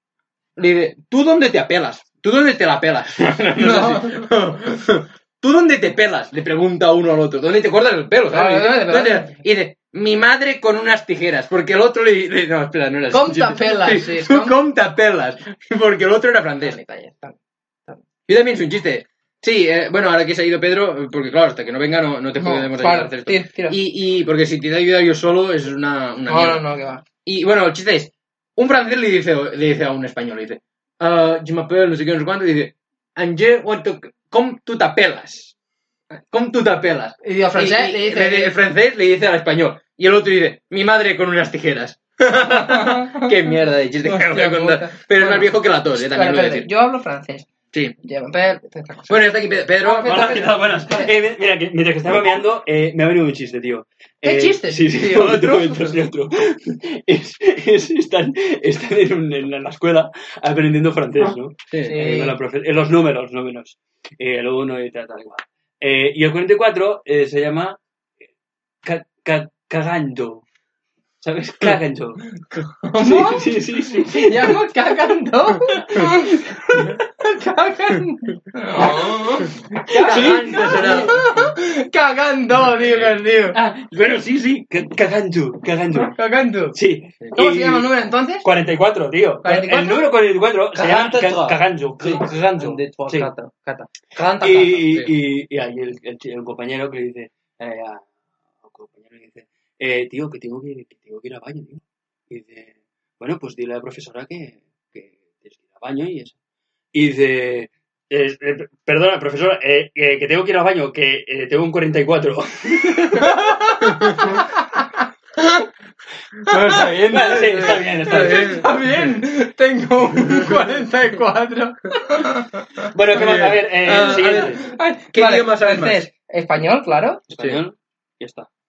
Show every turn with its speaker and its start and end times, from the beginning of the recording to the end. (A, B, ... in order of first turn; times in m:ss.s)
0:00.6-0:16.8 A
0:03.6-0:04.2 B
0:08.3-0:09.4 B
0:13.1-0:14.6 B
0:16.6-0:18.0 B
0:18.3-0:26.6 A
0:22.4-0:23.8 B
0:26.3-0:27.0 B
0:27.2-0:35.5 A
0:36.3-0:46.7 A
0:37.2-0:38.6 B
0:42.4-0:43.3 B
0:44.0-0:47.5 B
0:48.0-0:49.2 B
0:49.1-0:50.4 A
0:49.8-0:51.1 B
0:50.0-1:07.8 C
0:54.2-0:56.0 B
1:01.7-1:02.0 A
1:01.8-1:02.3 B
1:08.8-1:10.4 C
1:11.2-1:12.3 C
1:12.8-1:13.5 B
1:13.0-1:14.6 C
1:14.0-1:23.6 B
1:15.9-1:16.2 C
1:18.7-1:21.2 A
1:19.9-1:21.1 C
1:23.5-1:26.2 C
1:26.0-1:26.8 B
1:26.7-1:27.9 C
1:27.3-1:28.4 B
1:28.4-1:33.3 C
1:29.4-1:30.1 B
1:30.7-1:35.1 A
1:34.4-1:38.0 C
1:38.6-1:46.3 C
1:46.9-1:53.3 C
1:53.2-1:54.9 B
1:55.4-1:55.6 B
1:56.5-1:57.3 B
1:56.5-1:59.1 A
1:56.5-1:58.6 C
1:58.1-2:02.9 B
2:02.9-2:04.6 C
2:03.1-2:06.0 A
2:04.0-2:07.2 B
2:07.3-2:08.5 C
2:07.3-2:07.6 A